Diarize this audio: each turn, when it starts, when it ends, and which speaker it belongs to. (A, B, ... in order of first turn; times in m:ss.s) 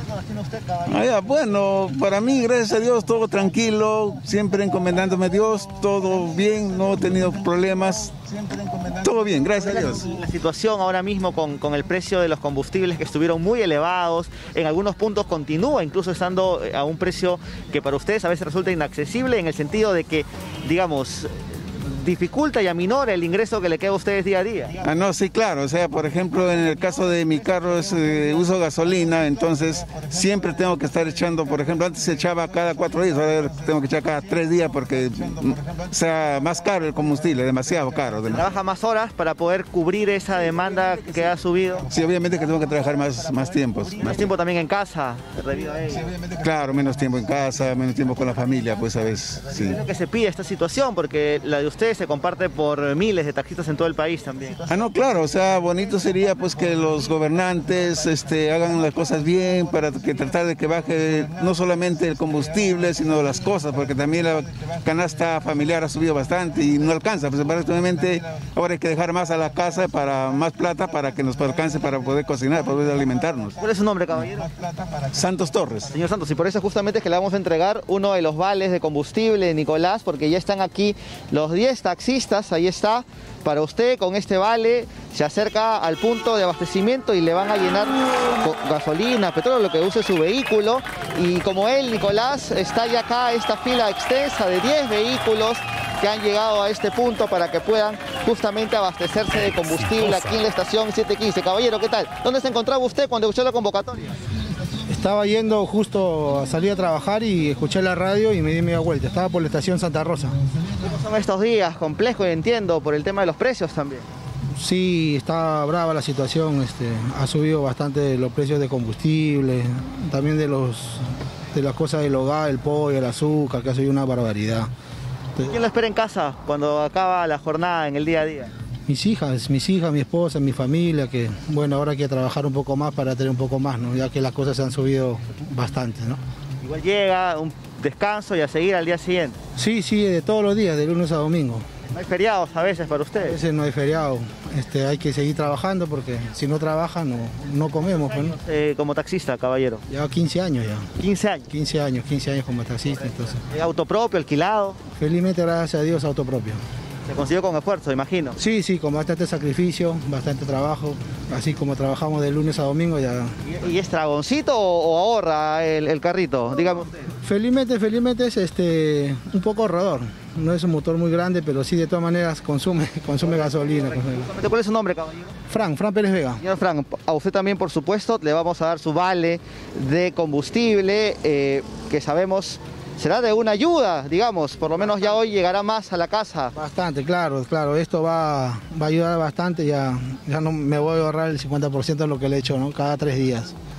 0:00.8-0:10.2 A
0:09.6-0:24.7 B
0:24.8-0:38.5 A
0:38.3-0:41.8 B
0:41.9-0:44.3 A
0:44.0-0:46.0 B
0:46.0-0:49.8 A
0:49.7-0:54.6 B
0:54.7-1:13.6 A
1:13.6-1:14.5 B
1:15.1-1:15.9 A
1:15.9-1:44.2 B
1:44.8-1:50.4 C
1:50.8-1:54.0 B
1:54.6-2:04.7 C
2:05.5-2:08.5 B
2:08.9-2:16.2 C
2:16.6-2:19.4 B
2:19.6-2:21.6 C
2:21.9-2:23.4 B
2:23.2-2:28.4 C
2:28.4-2:29.8 B
2:29.9-2:30.9 C
2:31.0-2:31.5 B
2:31.5-2:33.4 C
2:33.5-2:34.8 B
2:34.9-2:36.6 C
2:37.1-2:38.4 B
2:38.4-2:43.3 C
2:43.5-2:47.0 B
2:47.2-2:54.3 C
2:53.5-2:55.3 B
2:55.5-2:56.4 C
2:56.4-3:06.5 B
3:06.5-3:13.5 C